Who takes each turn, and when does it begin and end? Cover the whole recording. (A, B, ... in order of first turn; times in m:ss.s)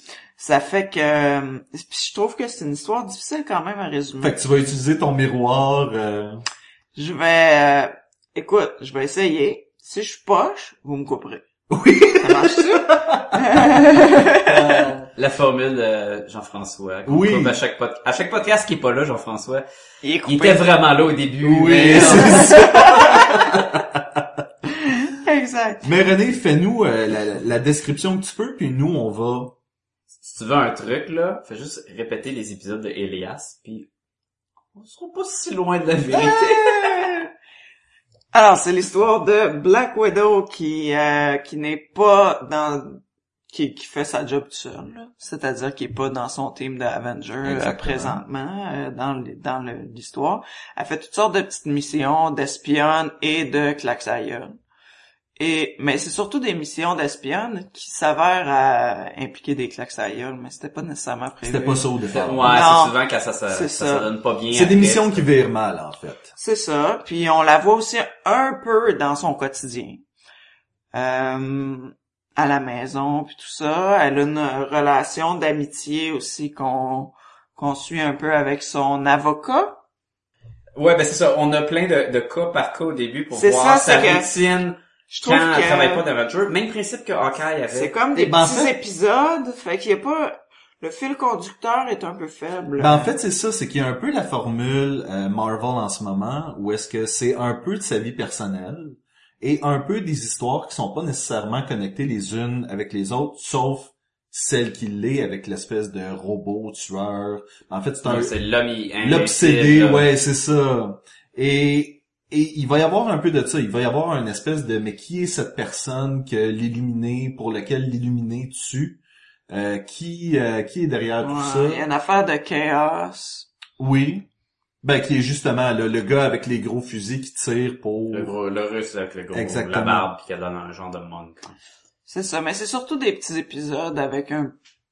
0:00.4-0:04.4 A
0:04.2-0:06.4 B
0:07.0-0:11.4 A
0:11.7-0:14.0 B
0:12.2-0:14.5 A
0:14.4-0:19.6 C
0:17.0-0:17.6 B
0:20.0-0:20.7 A
0:20.2-0:22.5 C
0:21.4-0:24.4 B
0:21.9-0:23.4 A
0:24.8-0:25.8 A
0:25.8-0:29.5 B
0:30.2-0:33.9 C
0:34.8-0:37.0 C
0:36.1-0:37.2 B
0:38.3-0:54.5 A
0:47.4-0:48.2 B
0:55.4-1:01.8 A
1:01.4-1:02.8 B
1:02.1-1:05.3 C
1:02.4-1:03.0 A
1:03.5-1:04.1 A
1:04.5-1:06.3 B
1:06.4-1:10.0 A
1:10.9-1:19.8 A
1:20.8-1:28.0 C
1:23.3-1:24.3 A
1:25.1-1:26.0 A
1:27.7-1:33.1 A
1:28.1-1:28.7 B
1:32.8-1:48.3 B
1:48.0-1:50.1 C
1:49.0-2:01.8 B
2:01.2-2:03.5 A
2:03.8-2:04.2 B
2:04.8-2:08.3 B
2:08.1-2:11.5 C
2:09.3-2:10.1 B
2:12.1-2:14.5 A